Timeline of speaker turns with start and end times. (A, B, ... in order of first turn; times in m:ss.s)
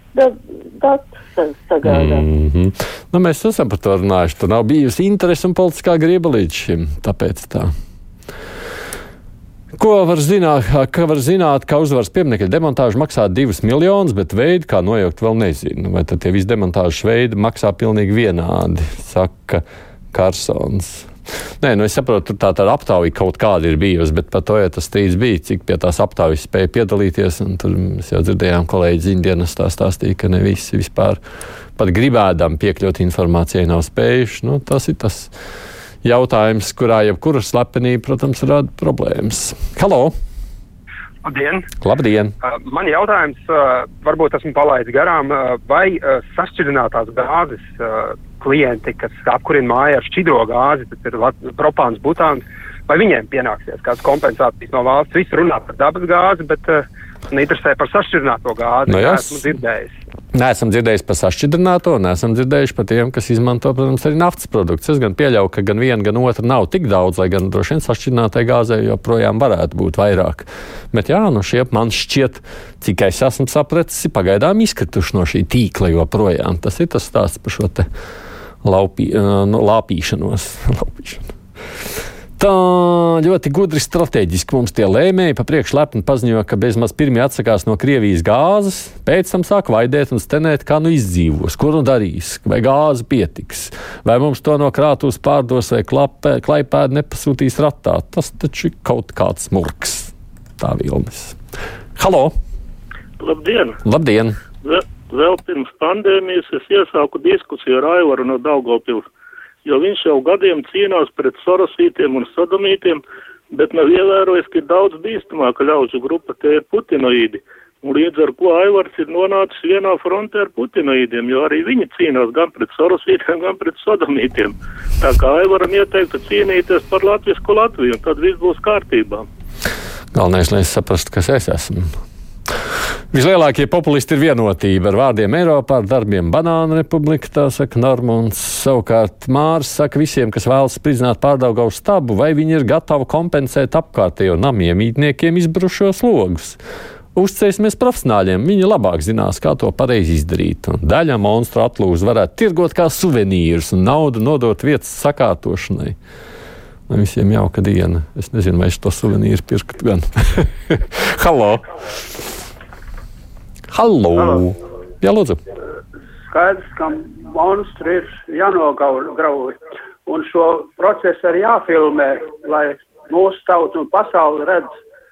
0:00.1-0:02.2 A
0:01.8-0:07.7 B
0:09.8-0:21.1 B
0:21.6-0:31.2 B
0:31.8-0:35.3 B
0:36.0-0:40.1 B
0:41.2-0:41.6 C
0:41.8-0:42.3 B
0:42.4-1:00.0 C
0:58.9-0:59.5 B
1:00.3-1:17.9 B
1:18.6-1:21.2 B
1:22.4-1:41.4 B
1:42.0-1:42.3 B
1:43.2-1:43.7 D
1:43.8-1:44.4 B
1:45.1-1:49.0 D
1:49.6-1:53.0 D
1:53.5-2:09.2 D
2:10.1-2:11.8 B
2:13.1-2:26.6 B
2:27.1-2:36.0 B
2:36.9-2:41.6 B
2:43.7-2:45.4 B
2:46.3-2:54.7 E